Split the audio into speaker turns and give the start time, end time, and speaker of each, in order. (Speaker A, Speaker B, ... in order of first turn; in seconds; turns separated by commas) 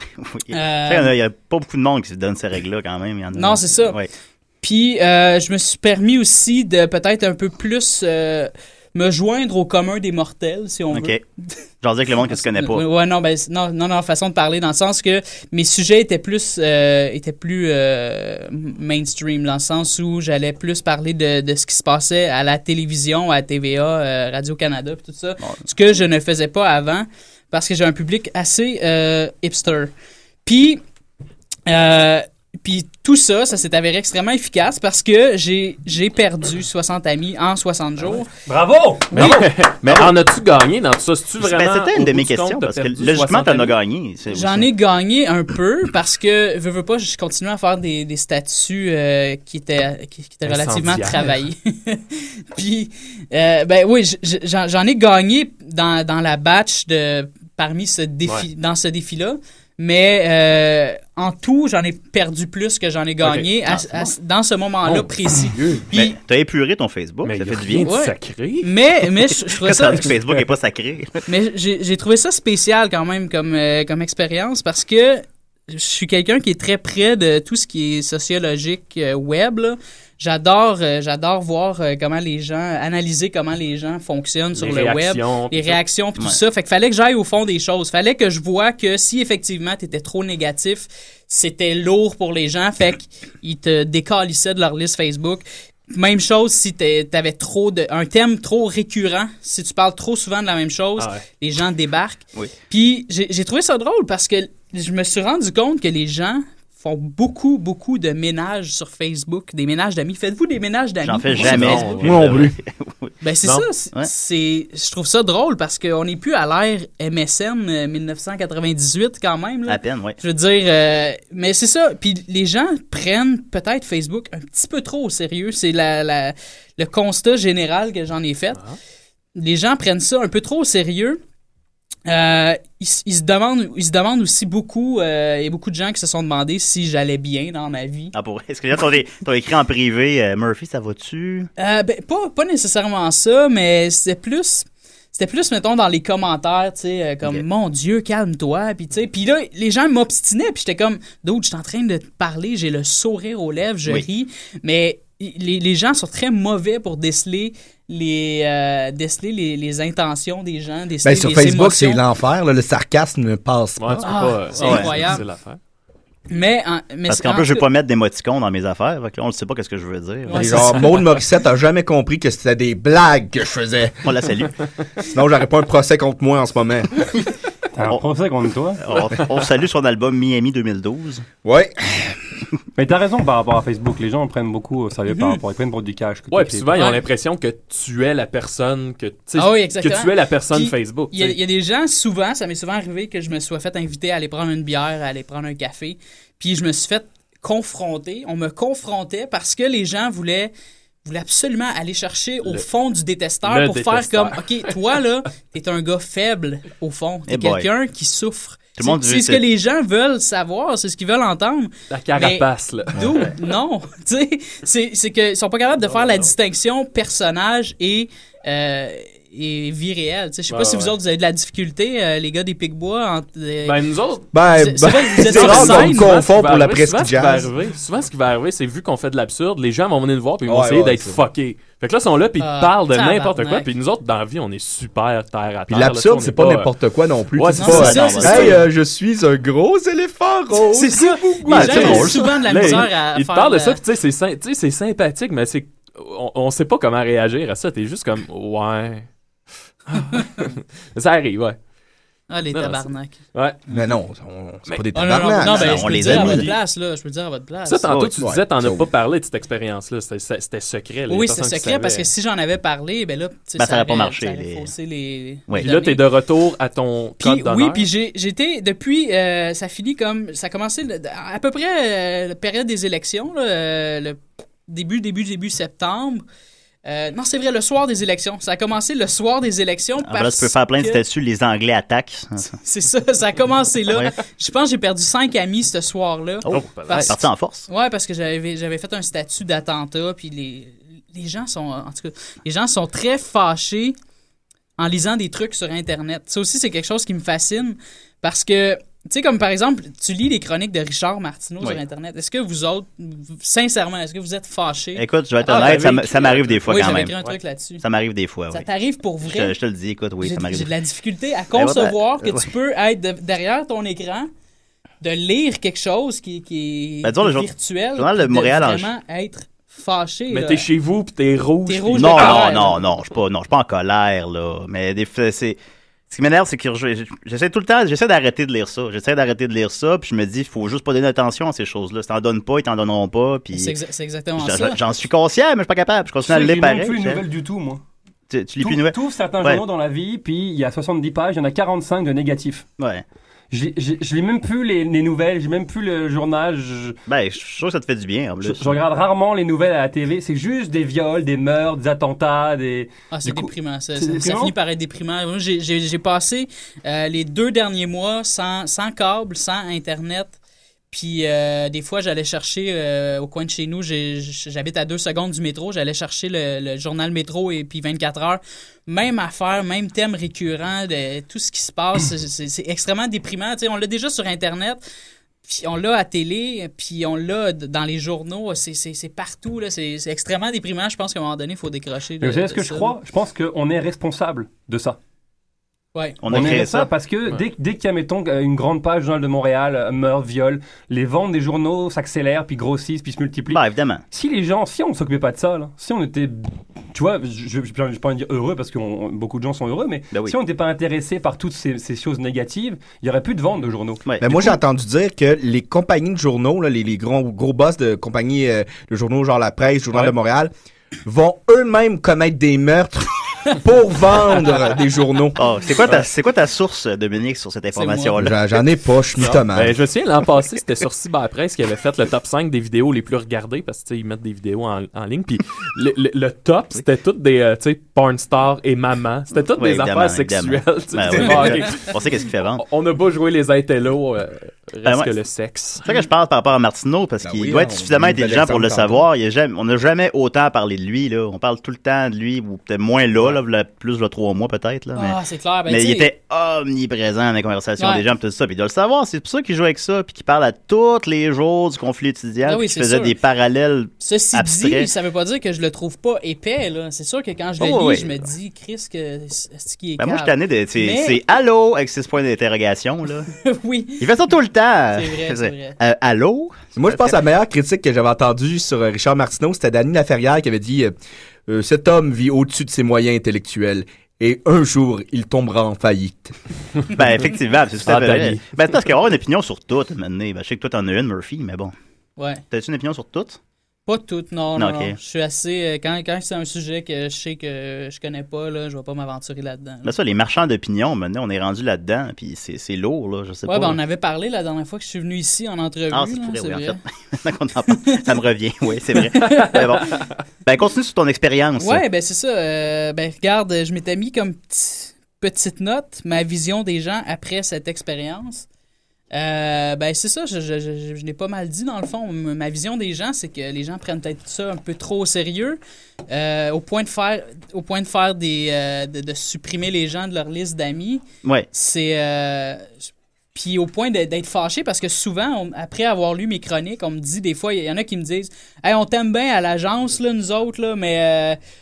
Speaker A: 0.2-4.1, Speaker B: 0.5-1.1, Speaker B: 3.3-4.0, Speaker B: 4.6-11.1, Speaker A: 10.9-11.2, Speaker A: 11.8-12.8, Speaker B: 12.3-29.9, Speaker B: 30.4-30.8, Speaker B: 31.7-38.3, Speaker C: 38.5-39.4, Speaker B: 39.1-39.5, Speaker D: 39.1-43.8, Speaker A: 39.8-40.2, Speaker A: 41.4-44.7, Speaker B: 44.3-66.2, Speaker D: 50.5-51.4, Speaker A: 63.7-64.1, Speaker D: 64.8-65.9, Speaker A: 65.9-68.0, Speaker D: 67.2-68.7, Speaker B: 67.8-70.2, Speaker A: 69.5-71.2, Speaker B: 71.3-112.0, Speaker D: 84.5-85.8, Speaker D: 101.0-101.2, Speaker A: 111.0-113.1, Speaker D: 111.4-112.4, Speaker E: 112.0-112.5, Speaker B: 113.2-128.6, Speaker A: 119.7-120.2, Speaker B: 129.4-131.2, Speaker B: 132.1-138.1, Speaker A: 138.1-141.5, Speaker B: 141.6-162.0, Speaker E: 161.0-164.1, Speaker D: 163.8-165.6, Speaker B: 164.0-165.2, Speaker A: 164.6-164.9, Speaker B: 166.3-167.7, Speaker A: 167.1-170.8, Speaker B: 170.3-171.0, Speaker E: 170.3-174.1, Speaker A: 174.0-174.6, Speaker E: 175.1-177.0, Speaker C: 177.8-178.8, Speaker A: 178.8-181.2, Speaker E: 181.4-182.2, Speaker C: 182.8-186.7, Speaker B: 185.1-185.4, Speaker D: 186.3-191.4, Speaker B: 186.8-187.0, Speaker B: 189.4-200.5, Speaker B: 201.1-223.8, Speaker D: 203.4-204.8, Speaker A: 207.3-207.7, Speaker A: 208.8-209.4, Speaker D: 211.9-213.3, Speaker D: 215.8-216.3, Speaker D: 220.5-220.9, Speaker D: 223.6-224.3, Speaker E: 224.3-227.5, Speaker B: 224.5-226.2, Speaker D: 225.2-236.7, Speaker E: 230.4-231.2, Speaker B: 232.4-233.7, Speaker E: 235.7-242.2, Speaker D: 237.4-237.9, Speaker B: 237.5-238.6, Speaker A: 237.6-238.6, Speaker B: 240.6-243.8, Speaker D: 241.4-249.1, Speaker D: 249.9-251.6, Speaker B: 252.3-253.2, Speaker D: 252.5-253.6, Speaker E: 253.7-256.5, Speaker D: 254.7-255.2, Speaker B: 254.9-257.9, Speaker A: 255.4-256.5, Speaker D: 257.7-262.1, Speaker A: 257.9-258.2, Speaker E: 258.2-258.9, Speaker B: 261.1-266.0, Speaker A: 263.6-264.7, Speaker D: 265.6-267.9, Speaker B: 267.2-276.2, Speaker B: 276.9-281.0, Speaker A: 280.0-282.6, Speaker B: 282.5-294.0, Speaker A: 286.5-287.7, Speaker D: 286.5-287.1, Speaker B: 294.8-307.8, Speaker A: 305.0-307.1, Speaker D: 305.5-307.4, Speaker A: 307.8-308.7, Speaker B: 308.5-309.6, Speaker A: 309.2-310.7, Speaker B: 310.2-314.3, Speaker A: 311.6-312.5, Speaker B: 315.0-320.7, Speaker A: 317.0-318.9, Speaker D: 320.3-322.8, Speaker B: 321.7-322.8, Speaker A: 321.9-325.6, Speaker A: 326.1-333.8, Speaker B: 333.5-334.8, Speaker A: 334.4-337.2, Speaker C: 336.2-337.8, Speaker A: 338.3-339.6, Speaker C: 338.6-342.6, Speaker A: 342.8-343.0, Speaker C: 343.5-347.0, Speaker A: 347.1-348.8, Speaker C: 348.4-354.5, Speaker B: 353.1-360.4, Speaker B: 360.9-374.8, Speaker B: 375.5-382.9, Speaker C: 382.2-385.0, Speaker B: 385.9-386.2, Speaker A: 386.2-386.9, Speaker C: 386.3-404.0, Speaker A: 393.5-394.0, Speaker A: 404.1-404.5, Speaker E: 404.2-410.5, Speaker E: 411.1-415.4, Speaker A: 415.4-418.4, Speaker B: 417.8-418.2, Speaker E: 418.2-419.8, Speaker D: 419.2-431.9, Speaker A: 429.4-432.6, Speaker D: 432.6-435.9, Speaker A: 434.9-435.1, Speaker A: 435.9-454.9, Speaker E: 437.2-439.1, Speaker B: 444.9-446.1, Speaker B: 447.8-448.0, Speaker B: 452.4-453.2, Speaker B: 454.0-461.2, Speaker A: 457.6-458.2, Speaker A: 460.0-463.3, Speaker B: 463.4-464.1, Speaker A: 464.0-467.2, Speaker B: 464.9-465.8, Speaker E: 466.8-470.9, Speaker E: 471.5-476.3, Speaker A: 476.9-481.7, Speaker D: 477.9-478.5, Speaker B: 482.2-482.4, Speaker A: 482.5-483.4, Speaker B: 483.9-489.9, Speaker A: 484.6-485.0, Speaker A: 489.8-493.8, Speaker B: 493.5-496.8, Speaker A: 495.9-501.8, Speaker B: 499.1-499.8, Speaker B: 501.6-508.5, Speaker B: 509.1-515.6, Speaker B: 516.1-522.8, Speaker B: 523.4-531.4